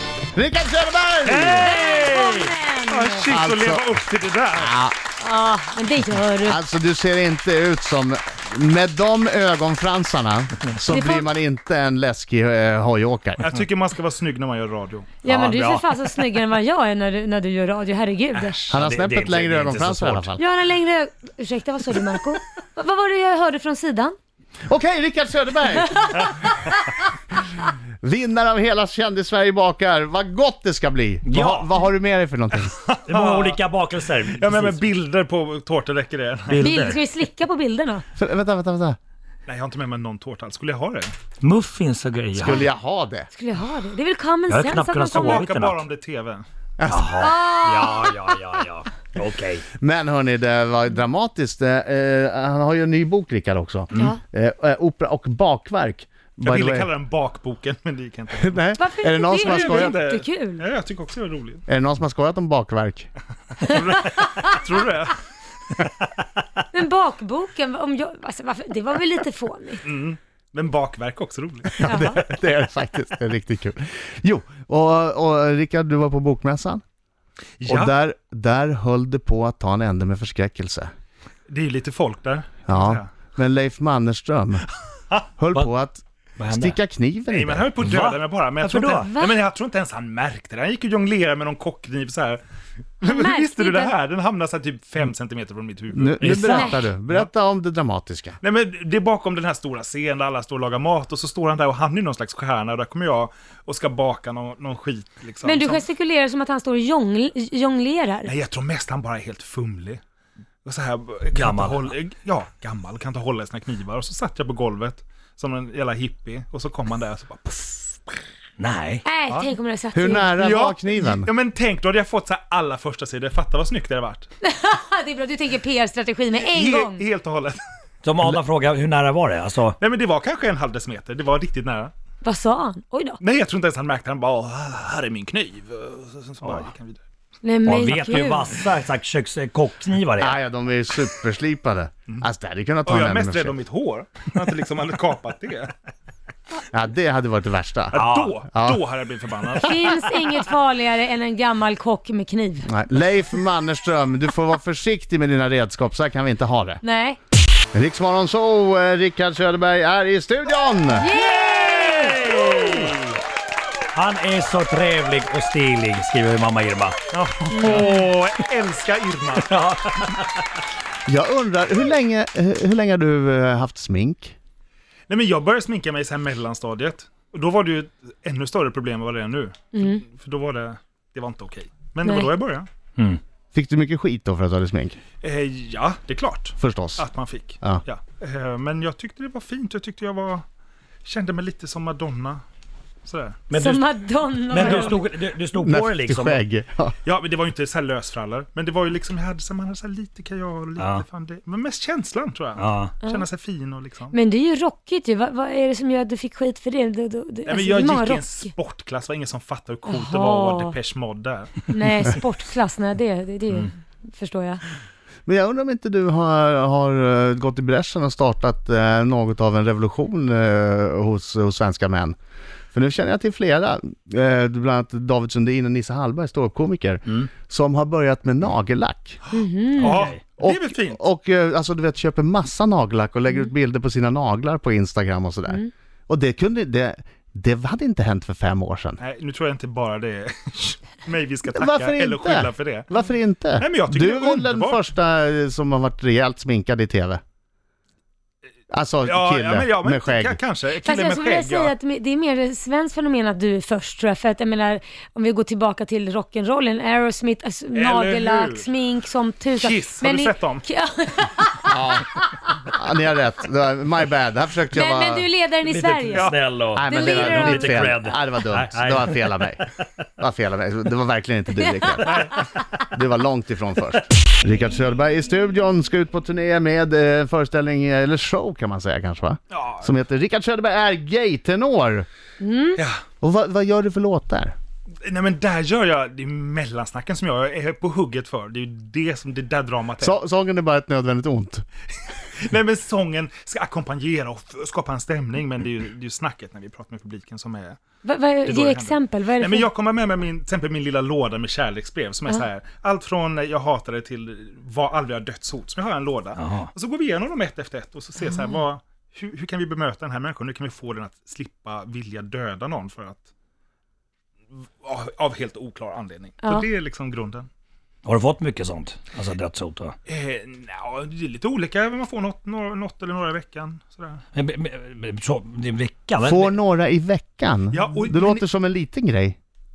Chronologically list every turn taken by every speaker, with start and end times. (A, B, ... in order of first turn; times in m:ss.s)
0:00.3-0:01.7 A
0:01.2-0:04.7 B
0:01.6-0:03.2 C
0:03.3-0:04.0 A
0:04.6-0:05.0 A
0:05.2-0:06.6 C
0:06.4-0:13.5 A
0:10.9-0:11.3 C
0:13.4-0:15.1 B
0:15.2-0:18.7 C
0:15.3-0:16.0 D
0:18.5-0:20.3 D
0:18.7-0:20.4 A
0:20.4-0:24.2 C
0:24.7-0:32.8 A
0:31.3-0:31.7 D
0:32.6-0:33.6 B
0:33.1-0:34.8 D
0:34.2-0:37.0 B
0:36.5-0:37.0 D
0:36.6-0:38.0 C
0:38.2-0:39.0 A
0:39.5-0:41.1 B
0:41.4-0:42.7 D
0:42.4-0:43.3 A
0:43.3-0:45.4 C
0:44.5-0:45.8 D
0:45.1-0:46.5 B
0:46.8-0:47.2 A
0:46.9-0:49.6 D
0:47.2-0:48.1 C
0:49.8-0:56.9 A
0:56.4-0:58.7 B
0:58.4-1:00.0 A
0:58.8-1:00.6 C
0:59.4-1:01.6 B
1:01.7-1:03.1 A
1:03.6-1:05.2 B
1:06.7-1:09.8 C
1:09.8-1:11.8 B
1:11.8-1:16.8 A
1:11.8-1:12.2 C
1:17.6-1:17.9 B
1:17.6-1:20.9 A
1:21.5-1:23.1 B
1:22.7-1:24.7 A
1:25.4-1:27.7 A
1:26.4-1:26.8 D
1:27.3-1:32.4 B
1:27.8-1:29.1 D
1:29.1-1:29.4 C
1:33.0-1:36.3 B
1:33.0-1:33.9 C
1:35.9-1:38.4 A
1:36.2-1:36.9 D
1:36.5-1:36.8 C
1:38.4-1:45.9 B
1:45.4-1:48.3 C
1:48.2-1:50.0 B
1:50.6-1:58.2 B
1:51.3-1:51.9 D
1:58.6-1:59.0 D
1:59.0-2:00.4 C
1:59.9-2:01.3 A
2:00.3-2:04.3 B
2:04.4-2:07.0 C
2:06.4-2:07.6 B
2:08.0-2:09.8 D
2:09.8-2:11.9 B
2:12.2-2:13.2 C
2:13.2-2:17.0 B
2:17.4-2:18.5 C
2:17.6-2:20.4 D
2:20.2-2:23.6 A
2:22.9-2:25.7 B
2:26.7-2:28.0 A
2:27.9-2:30.3 B
2:28.0-2:28.4 D
2:28.5-2:28.8 A
2:29.6-2:32.8 C
2:32.6-2:36.8 A
2:36.8-2:37.2 C
2:37.7-2:41.1 A
2:41.0-2:42.3 C
2:42.0-2:42.9 D
2:43.9-2:47.0 D
2:47.1-2:49.6 B
2:47.5-2:48.0 C
2:49.4-2:50.4 D
2:51.1-2:54.4 A
2:55.1-3:02.7 B
2:59.7-3:00.0 C
3:02.0-3:02.3 C
3:03.5-3:05.0 A
3:05.2-3:10.4 B
3:06.6-3:07.1 A
3:11.0-3:12.4 B
3:13.0-3:13.5 B
3:13.5-3:13.8 D
3:13.5-3:15.0 C
3:14.5-3:16.4 D
3:14.5-3:15.0 B
3:15.6-3:17.0 A
3:17.0-3:24.2 B
3:20.8-3:21.0 D
3:22.6-3:23.0 D
3:24.1-3:28.5 C
3:27.5-3:32.2 B
3:29.9-3:30.8 C
3:31.7-3:34.6 C
3:35.3-3:42.2 A
3:42.7-3:49.2 A
3:49.3-3:51.0 B
3:49.3-3:50.1 C
3:49.8-3:50.2 D
3:50.4-3:59.0 A
3:59.0-4:02.9 B
4:01.5-4:07.2 A
4:03.6-4:04.8 B
4:08.7-4:10.4 A
4:09.0-4:11.7 B
4:10.8-4:22.1 C
4:17.7-4:18.7 B
4:19.6-4:20.6 B
4:21.7-4:22.1 A
4:22.7-4:25.3 A
4:24.7-4:26.3 C
4:25.6-4:29.7 D
4:26.8-4:29.6 A
4:26.9-4:28.0 C
4:30.2-4:32.4 A
4:31.6-4:32.5 C
4:32.0-4:32.4 B
4:32.9-4:42.1 A
4:39.5-4:39.9 B
4:42.4-4:42.8 C
4:43.2-4:44.6 A
4:45.0-4:50.2 B
4:50.0-4:51.6 A
4:52.4-4:57.8 B
4:58.0-4:59.7 C
4:58.4-5:13.3 B
5:06.4-5:06.7 D
5:08.2-5:08.6 C
5:14.8-5:17.5 B
5:18.0-5:20.0 D
5:20.1-5:24.2 B
5:24.3-5:26.5 D
5:26.2-5:29.4 A
5:27.7-5:28.4 B